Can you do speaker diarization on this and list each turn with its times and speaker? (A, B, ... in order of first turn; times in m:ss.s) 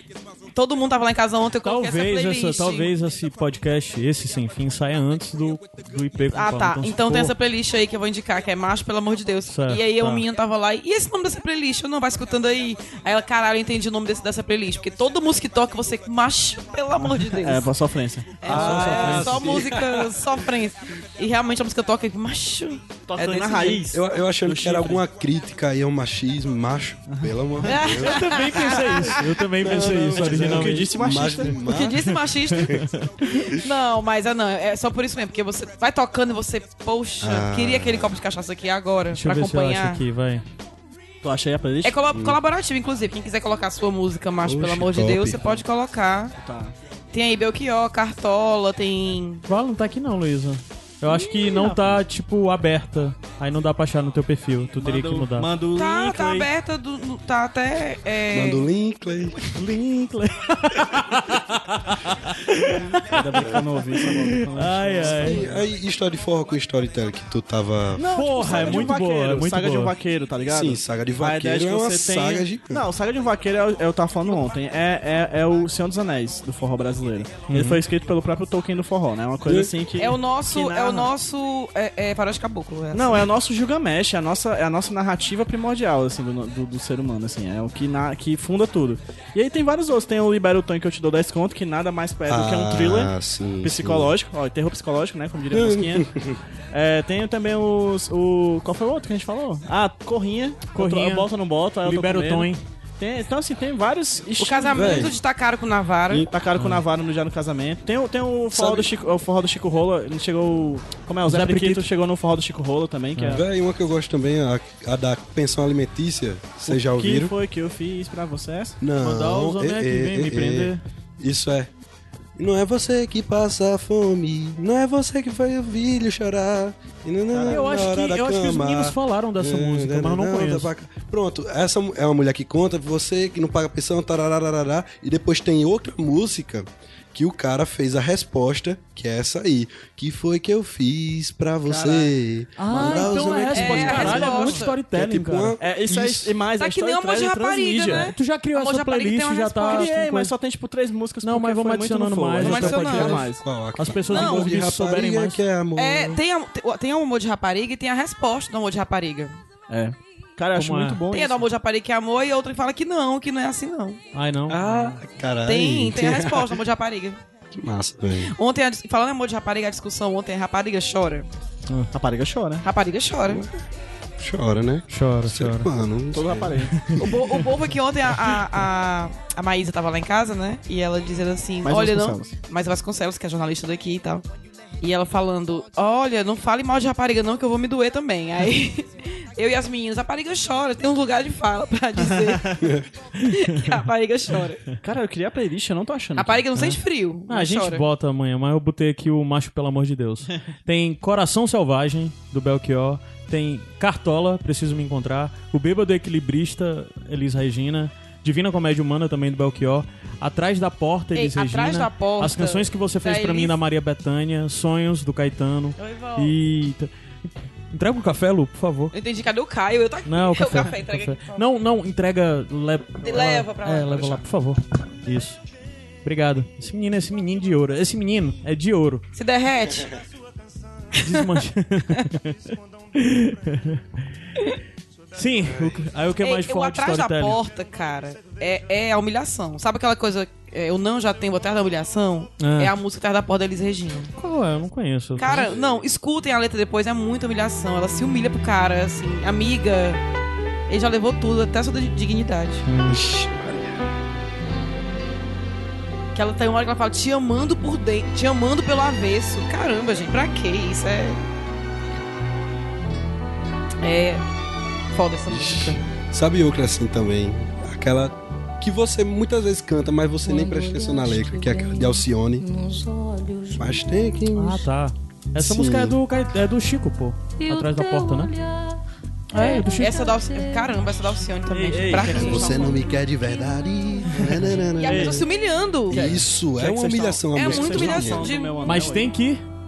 0:00.5-0:02.9 A
0:01.6-0:07.3 B
0:06.3-0:17.7 A
0:09.5-0:10.2 B
0:17.3-0:19.1 C
0:18.4-0:23.9 A
0:18.4-0:20.2 D
0:18.5-0:19.5 B
0:23.1-0:25.0 C
0:23.9-0:28.5 D
0:27.6-0:29.2 A
0:28.0-0:30.9 B
0:29.6-0:32.9 D
0:29.8-0:31.6 C
0:31.7-0:40.0 A
0:37.2-0:38.2 D
0:39.1-0:40.4 B
0:41.2-0:42.0 C
0:41.8-0:46.3 A
0:42.1-0:42.4 D
0:44.4-0:45.6 D
0:46.4-0:46.8 C
0:47.1-0:49.4 A
0:49.5-0:55.5 B
0:51.1-0:52.0 C
0:54.8-0:56.5 C
0:55.8-0:58.6 A
0:58.3-0:59.5 D
0:59.6-1:03.4 B
1:02.6-1:05.6 C
1:04.5-1:05.4 B
1:05.1-1:08.9 D
1:08.0-1:21.1 C
1:08.1-1:09.9 B
1:10.5-1:12.9 D
1:17.5-1:17.8 B
1:19.5-1:19.7 D
1:20.0-1:23.3 A
1:22.9-1:36.1 C
1:32.3-1:34.1 D
1:35.5-1:36.4 D
1:36.7-1:45.2 C
1:40.7-1:41.3 B
1:41.8-1:42.6 B
1:44.4-1:46.3 A
1:44.7-1:45.2 D
1:46.2-1:53.4 C
1:46.6-1:46.8 B
1:48.5-1:48.9 D
1:51.3-1:51.8 B
1:53.3-1:57.3 D
1:56.7-1:58.8 C
1:58.8-2:01.7 D
1:59.0-2:00.8 B
2:02.4-2:26.4 D
2:07.3-2:07.7 C
2:07.5-2:10.7 B
2:21.6-2:22.1 C
2:22.6-2:25.6 B
2:22.7-2:24.5 C
2:23.5-2:24.8 A
2:25.6-2:28.1 C
2:26.6-2:29.9 A
2:27.8-2:30.3 B
2:29.7-2:33.4 C
2:31.2-2:33.2 B
2:32.4-2:33.2 A
2:32.8-2:36.2 D
2:33.8-2:35.4 B
2:34.1-2:34.6 A
2:35.8-2:39.4 A
2:39.7-2:41.5 C
2:40.6-2:41.0 B
2:41.1-2:44.0 A
2:44.1-2:45.0 B
2:44.5-2:46.6 D
2:45.4-2:47.2 A
2:47.5-2:48.3 D
2:48.3-2:51.3 A
2:51.9-2:52.6 C
2:52.6-2:53.4 A
2:54.2-2:56.8 D
2:54.9-2:55.7 B
2:56.1-2:56.9 C
2:56.8-2:57.4 B
2:57.0-3:04.2 A
3:01.6-3:02.3 C
3:04.8-3:12.6 A
3:12.2-3:12.6 C
3:12.6-3:12.9 D
3:13.2-3:14.6 A
3:14.8-3:16.4 C
3:16.2-3:17.8 A
3:16.6-3:38.9 B
3:31.2-3:33.6 A
3:35.8-3:36.3 A
3:38.9-3:41.4 A
3:40.1-3:45.4 B
3:43.0-3:44.2 A
3:46.0-3:49.0 B
3:49.2-3:49.9 A
3:51.0-3:51.3 A
3:51.0-3:52.4 B
3:53.0-3:53.8 B
3:55.1-3:57.4 B
3:55.4-3:55.8 D
3:56.2-4:04.1 A
4:02.4-4:02.7 B
4:04.2-4:05.5 B
4:05.2-4:10.0 A
4:05.3-4:05.6 D
4:10.7-4:12.6 A
4:12.7-4:13.0 B
4:12.9-4:13.8 D
4:16.1-4:21.2 A
4:23.8-4:24.2 A
4:24.9-4:25.8 A
4:25.3-4:32.5 D
4:33.5-4:34.7 D
4:34.4-4:38.4 B
4:35.4-4:36.0 D
4:39.3-4:40.1 B
4:39.3-4:42.7 A
4:41.5-4:42.8 C
4:42.0-4:45.3 D
4:44.1-4:45.2 C
4:44.8-4:46.2 A
4:45.9-4:48.3 D
4:45.9-4:49.1 C
4:47.4-4:48.6 A
4:48.6-4:49.4 B